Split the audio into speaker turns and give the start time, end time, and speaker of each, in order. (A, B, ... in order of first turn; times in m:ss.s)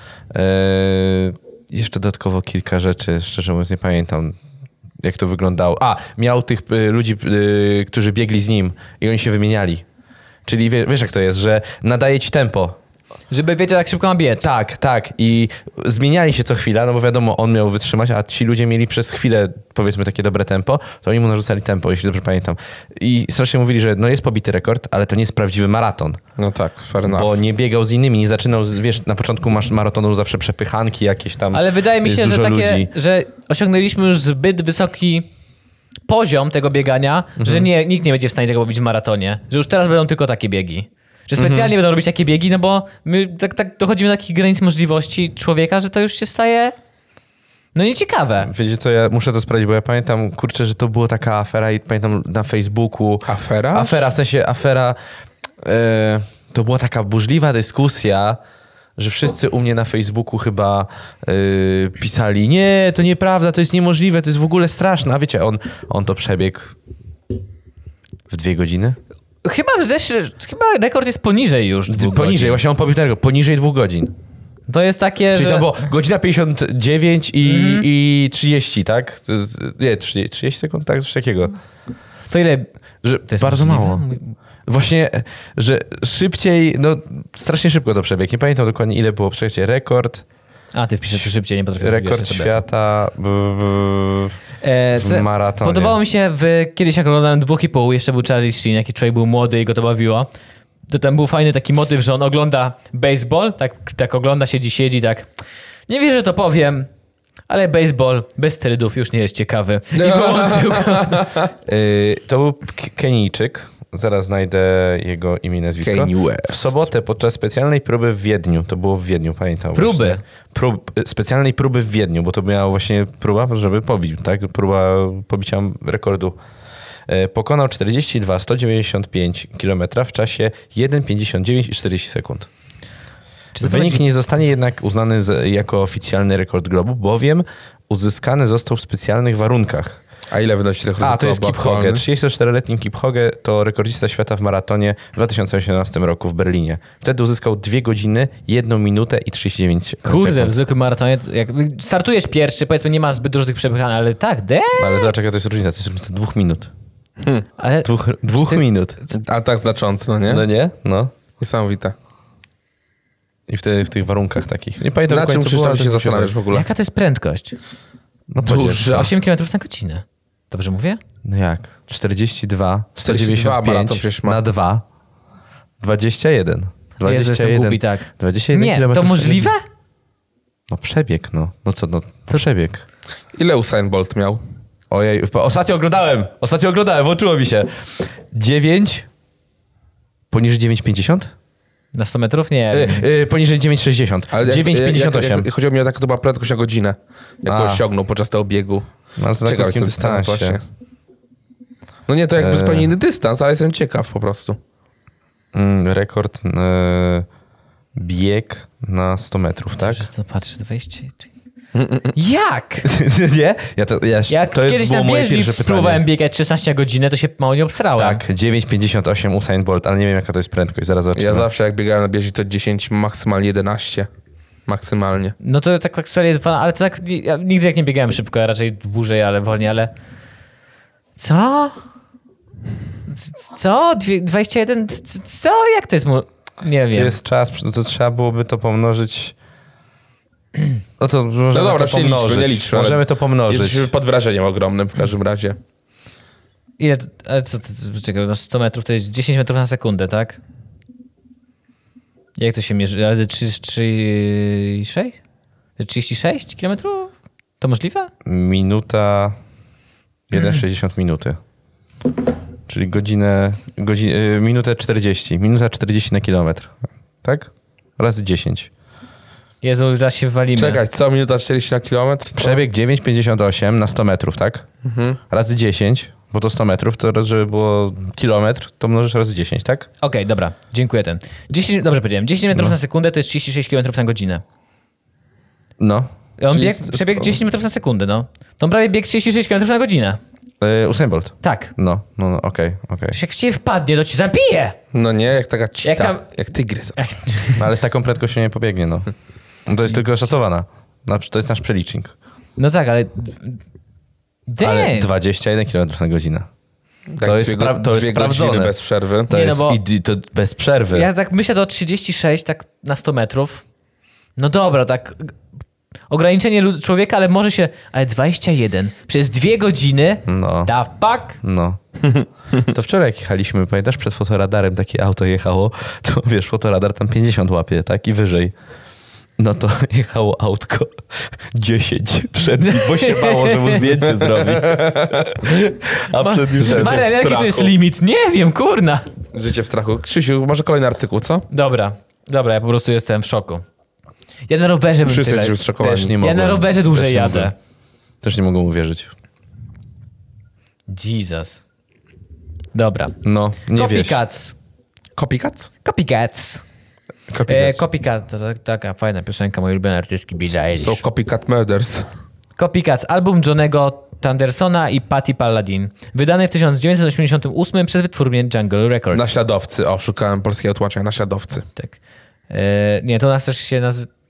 0:00.3-0:04.4 A
0:05.0-0:09.8 A
0:10.4-0:12.8 A
0:13.3-0:14.5 B
0:14.4-0:26.2 A
0:26.4-0:27.4 C
0:27.1-0:32.9 A
0:31.5-0:35.3 B
0:36.1-0:46.7 B
0:37.4-0:37.7 A
0:41.4-0:41.7 A
0:47.7-0:48.5 B
0:48.4-0:55.0 A
0:53.3-0:54.1 C
0:55.6-0:58.4 A
0:59.0-1:06.7 A
1:08.3-1:09.0 A
1:09.4-1:12.6 B
1:11.9-1:14.1 A
1:14.7-1:15.7 B
1:15.3-1:21.6 A
1:17.4-1:17.9 B
1:22.3-1:22.7 B
1:23.0-1:24.0 A
1:23.3-1:24.3 B
1:24.6-1:30.2 A
1:30.7-1:32.6 B
1:31.8-1:34.4 A
1:34.6-1:40.3 B
1:35.0-1:36.0 A
1:40.9-1:45.3 B
1:45.9-1:46.9 B
1:47.5-1:51.3 B
1:49.9-1:51.5 C
1:51.6-2:06.4 A
1:55.8-1:56.7 C
1:59.7-2:00.2 B
2:07.1-2:12.5 A
2:13.5-2:14.0 B
2:13.6-2:20.0 A
2:20.3-2:22.0 C
2:21.0-2:30.5 A
2:30.0-2:35.1 B
2:34.8-2:36.7 A
2:37.6-2:38.6 B
2:37.8-2:39.0 A
2:39.1-2:40.4 C
2:40.3-2:41.1 A
2:41.4-2:41.9 C
2:43.5-2:46.3 A
2:45.1-2:46.7 C
2:46.5-2:47.6 B
2:48.3-2:49.1 A
2:48.4-2:49.1 C
2:48.8-2:51.0 B
2:51.2-2:54.8 A
2:53.0-2:54.4 C
2:55.8-2:59.5 A
2:57.0-2:59.6 B
3:00.7-3:02.8 A
3:03.3-3:04.4 C
3:04.9-3:09.1 A
3:10.3-3:11.3 A
3:11.9-3:13.1 B
3:12.7-3:15.5 A
3:14.3-3:18.8 C
3:17.4-3:17.8 A
3:19.2-3:20.6 A
3:19.4-3:20.6 C
3:22.1-3:24.6 C
3:22.4-3:22.9 A
3:25.5-3:27.3 A
3:27.9-3:30.0 A
3:29.8-3:31.3 B
3:31.7-3:32.1 C
3:32.1-3:32.9 B
3:32.8-3:36.0 A
3:34.3-3:38.2 B
3:38.0-3:41.4 A
3:41.2-3:44.1 C
3:44.7-3:45.4 C
3:45.4-3:49.9 B
3:51.2-3:51.8 B
3:53.1-3:57.2 B
3:56.9-3:59.3 A
4:01.0-4:03.9 A
4:01.5-4:05.6 C
4:06.8-4:10.4 B
4:12.4-4:15.2 B
4:15.8-4:18.1 B
4:18.2-4:19.4 A
4:20.3-4:21.4 A
4:22.7-4:28.7 A
4:29.6-4:30.8 B
4:30.6-4:32.6 C
4:32.3-4:34.7 A
4:34.8-4:35.2 C
4:35.3-4:39.9 A
4:40.0-4:44.4 B
4:45.8-4:47.2 A
4:46.4-4:50.2 B
4:50.6-4:53.2 A
4:51.4-4:51.7 B
4:53.1-4:54.8 B
4:54.9-4:57.0 C
4:55.8-4:56.2 B
4:57.0-4:57.6 B
4:57.6-4:59.1 A
4:59.6-5:02.1 A
5:02.6-5:03.6 B
5:04.5-5:05.1 B
5:04.6-5:06.5 A
5:07.1-5:09.3 C
5:07.2-5:08.7 A
5:09.3-5:11.1 A
5:09.3-5:09.8 B
5:10.9-5:13.6 B
5:14.4-5:15.4 B
5:16.1-5:21.4 B
5:20.3-5:20.7 A
5:21.4-5:21.8 A
5:22.7-5:28.5 A
5:29.4-5:37.1 A
5:32.6-5:33.8 B
5:34.1-5:35.3 C
5:36.1-5:39.1 B
5:36.6-5:37.7 C
5:39.3-5:41.4 C
5:41.5-5:43.6 B
5:44.5-5:47.5 B
5:45.0-5:46.1 C
5:45.8-5:47.5 A
5:48.2-5:49.1 A
5:50.9-5:51.6 B
5:52.7-5:53.2 B
5:53.2-5:54.2 A
5:53.7-5:54.5 B
5:55.2-5:55.7 C
5:55.8-5:56.6 B
5:57.3-5:57.8 A
5:57.5-6:01.0 B
6:00.8-6:02.1 C
6:02.6-6:09.3 B
6:09.1-6:11.6 C
6:12.5-6:14.1 B